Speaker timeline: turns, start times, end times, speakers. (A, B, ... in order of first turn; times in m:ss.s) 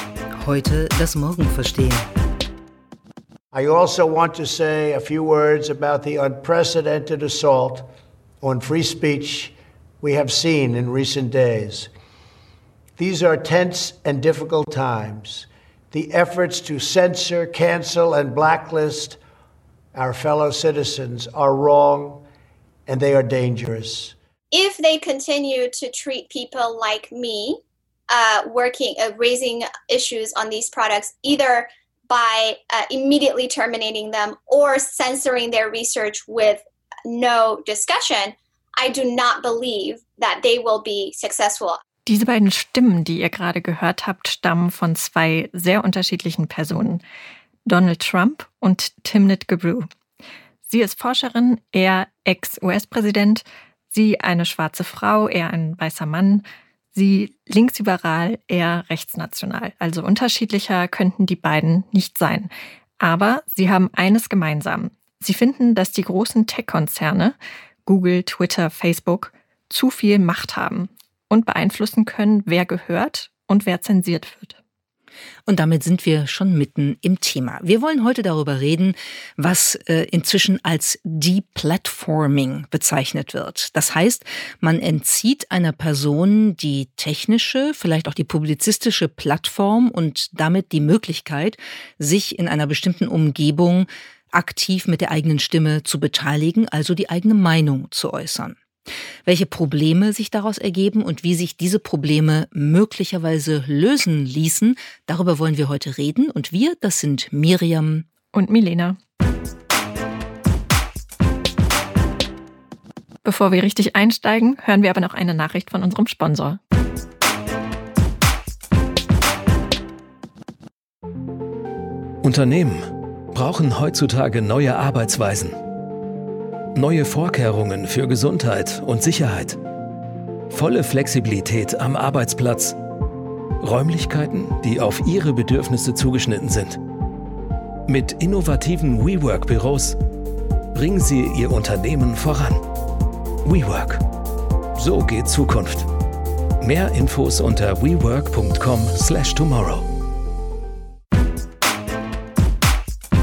0:00.3-0:02.0 A
0:03.5-0:07.9 B
0:08.4-0:11.9 B
0:13.0-0:19.2 B
0:19.9-0:22.2 B
0:22.9-0:24.1 B
0:24.5-0:41.8 C
0:42.0-0:47.0 D
0:47.6-0:49.9 D
0:50.6-1:14.6 D
1:15.5-1:38.6 A
1:39.2-1:48.0 A
1:48.3-1:49.0 D
1:53.2-1:56.6 D
2:02.2-2:05.6 E
2:06.7-2:09.6 E
2:10.5-2:12.8 E
2:13.6-2:16.8 E
2:17.9-2:20.0 E
2:20.7-2:22.6 E
2:23.4-2:24.0 E
2:24.7-2:25.9 E
2:26.6-2:29.9 E